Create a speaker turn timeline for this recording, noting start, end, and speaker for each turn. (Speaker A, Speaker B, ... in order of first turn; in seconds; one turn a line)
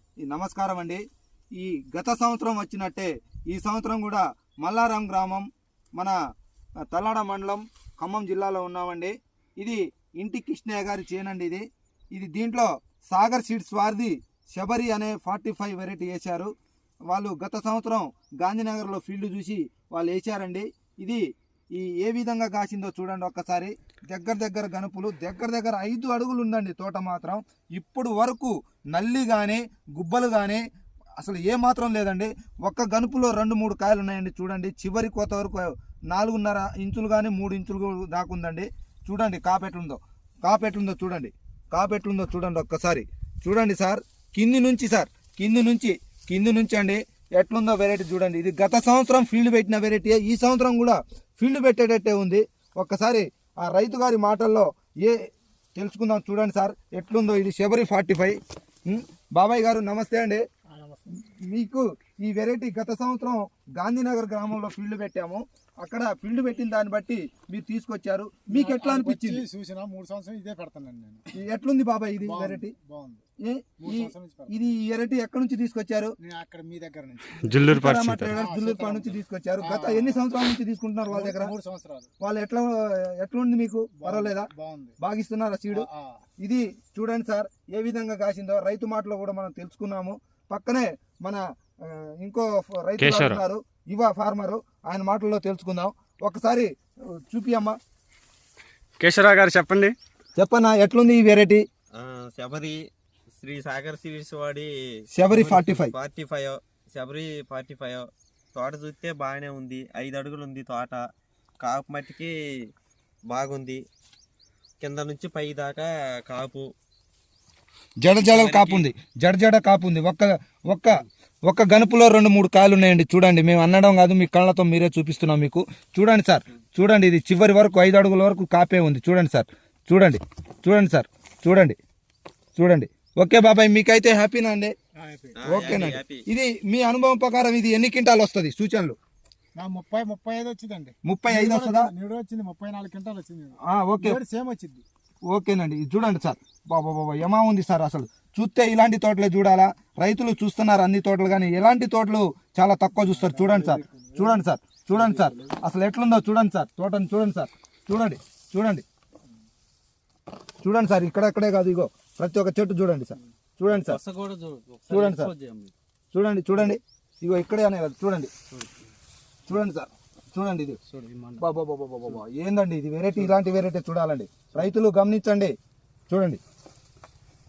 Speaker A: 0.2-1.0
Speaker A: 1.6-6.1
Speaker A: 6.9-16.5
Speaker A: 17.1-21.2
Speaker A: 21.7-30.6
Speaker A: 31.2-60.4
Speaker B: 60.7-61.1
Speaker A: 61.1-69.4
Speaker B: 68.5-71.2
Speaker A: 71.3-72.7
Speaker B: 72.2-73.2
Speaker A: 73.4-76.1
Speaker B: 73.8-74.6
Speaker B: 76.2-77.4
Speaker C: 77.4-78.4
Speaker A: 77.5-81.5
Speaker B: 78.3-80.2
Speaker B: 81.1-82.1
Speaker A: 82.2-84.5
Speaker B: 84.0-85.0
Speaker A: 85.0-85.8
Speaker B: 85.7-86.2
Speaker A: 86.4-96.7
Speaker C: 93.0-93.4
Speaker A: 97.3-97.8
Speaker C: 99.0-99.9
Speaker A: 100.4-101.6
Speaker D: 101.9-102.8
Speaker D: 103.4-104.7
Speaker A: 105.1-105.9
Speaker D: 105.3-111.0
Speaker D: 111.6-112.3
Speaker D: 113.3-113.8
Speaker D: 114.8-116.7
Speaker A: 118.0-131.8
Speaker D: 118.3-118.9
Speaker A: 132.6-134.7
Speaker B: 134.9-136.0
Speaker D: 135.4-136.2
Speaker A: 135.4-139.0
Speaker B: 139.6-144.8
Speaker A: 141.0-141.9
Speaker A: 143.7-144.2
Speaker A: 145.3-158.8
Speaker B: 153.1-155.6
Speaker A: 160.6-164.0
Speaker D: 163.7-165.7
Speaker A: 164.9-165.3
Speaker A: 166.1-168.3
Speaker A: 169.5-170.8
Speaker D: 170.9-171.4
Speaker A: 171.4-175.5
Speaker A: 176.1-176.4